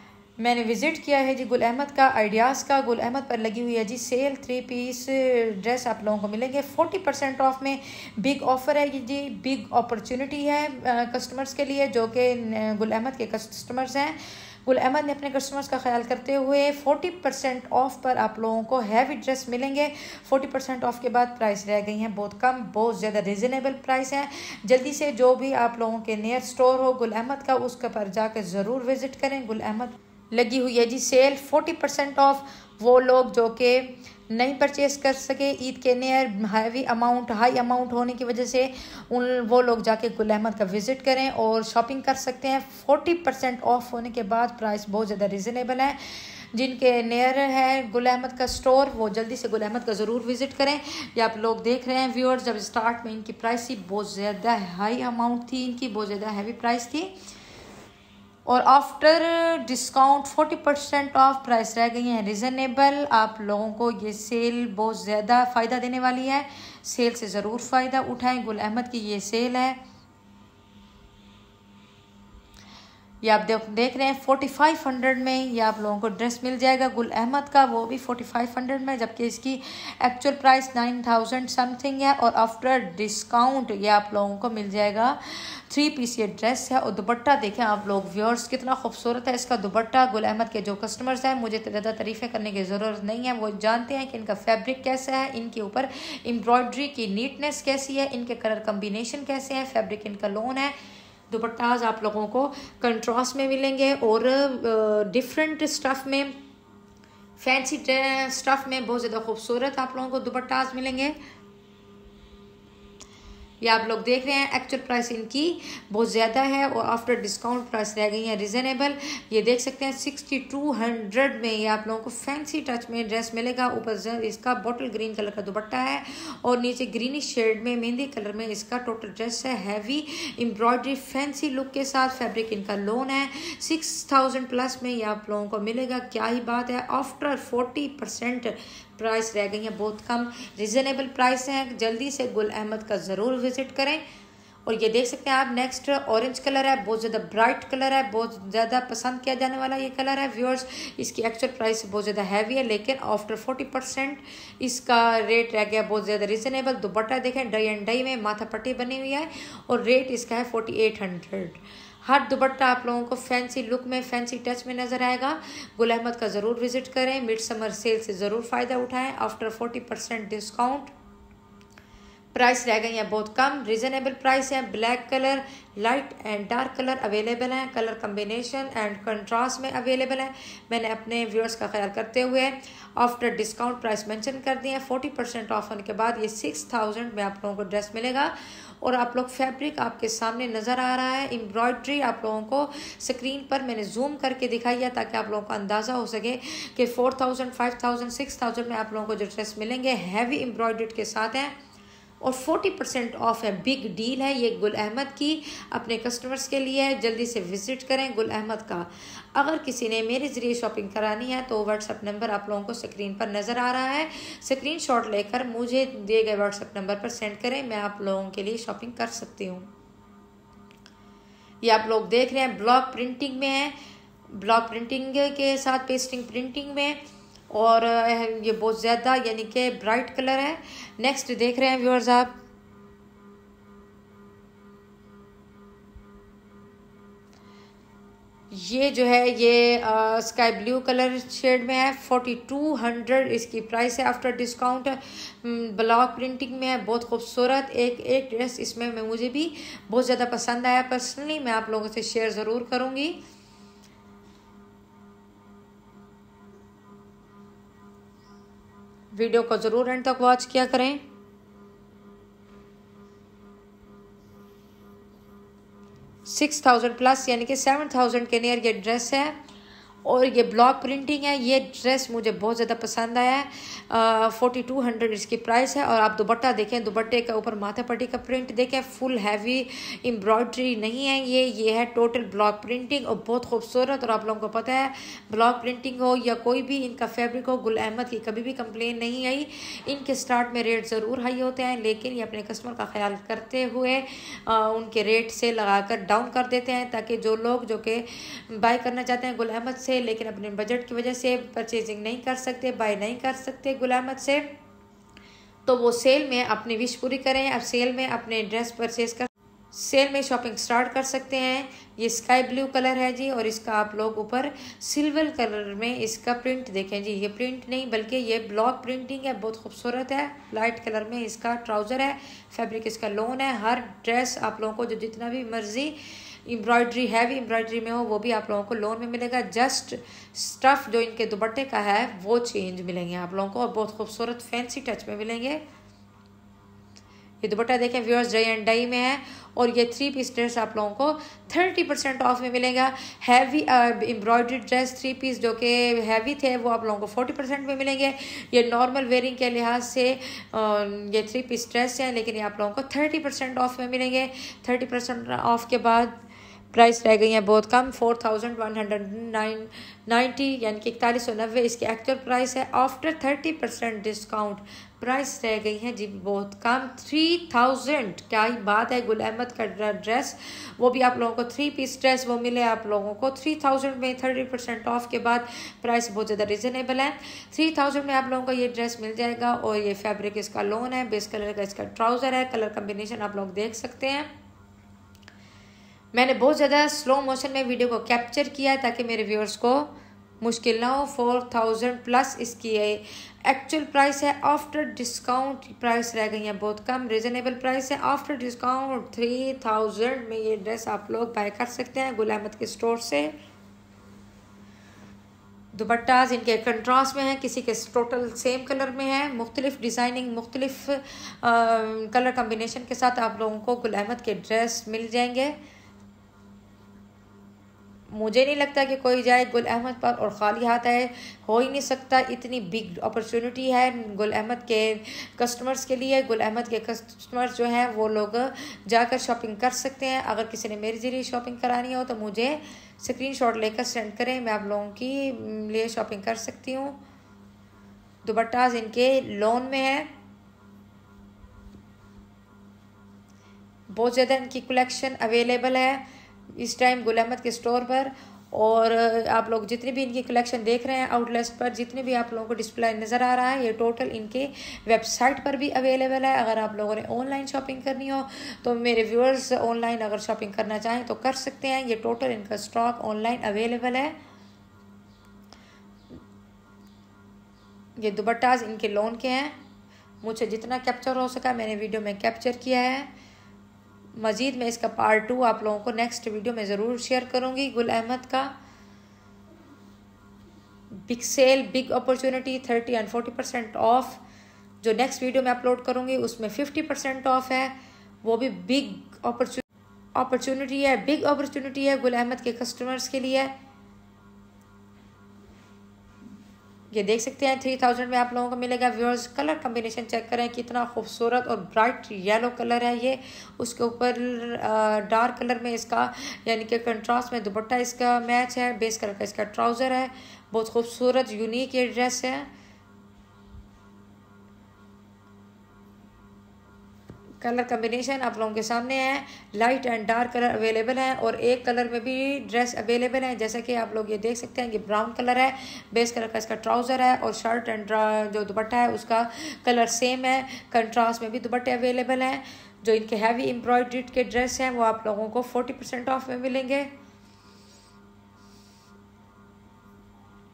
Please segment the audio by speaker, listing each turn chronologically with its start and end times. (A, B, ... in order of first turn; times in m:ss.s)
0:00.4-0:57.1 A
0:58.4-1:09.8 A
1:13.2-1:40.7 A
1:41.3-1:46.4 A
1:47.4-1:51.2 A
1:53.6-2:24.0 A
2:24.6-2:50.9 A
2:52.3-3:21.5 A
3:22.2-3:39.7 A
3:41.6-3:43.7 A
3:44.3-3:52.3 A
3:58.5-4:13.2 A
4:19.1-4:21.0 A
4:26.2-4:29.3 A
4:30.0-5:04.5 A
5:05.6-5:35.6 A
5:37.4-5:56.1 A
5:56.7-6:24.3 A
6:26.1-6:43.3 A
6:45.7-6:55.6 A
6:58.1-7:17.0 A
7:18.2-7:20.1 A
7:23.9-7:44.2 A
7:48.0-7:49.6 A
7:50.2-7:53.1 A
7:54.2-7:58.5 A
8:01.0-8:04.2 A
8:04.8-8:13.5 A
8:16.9-8:32.5 A
8:37.4-8:56.9 A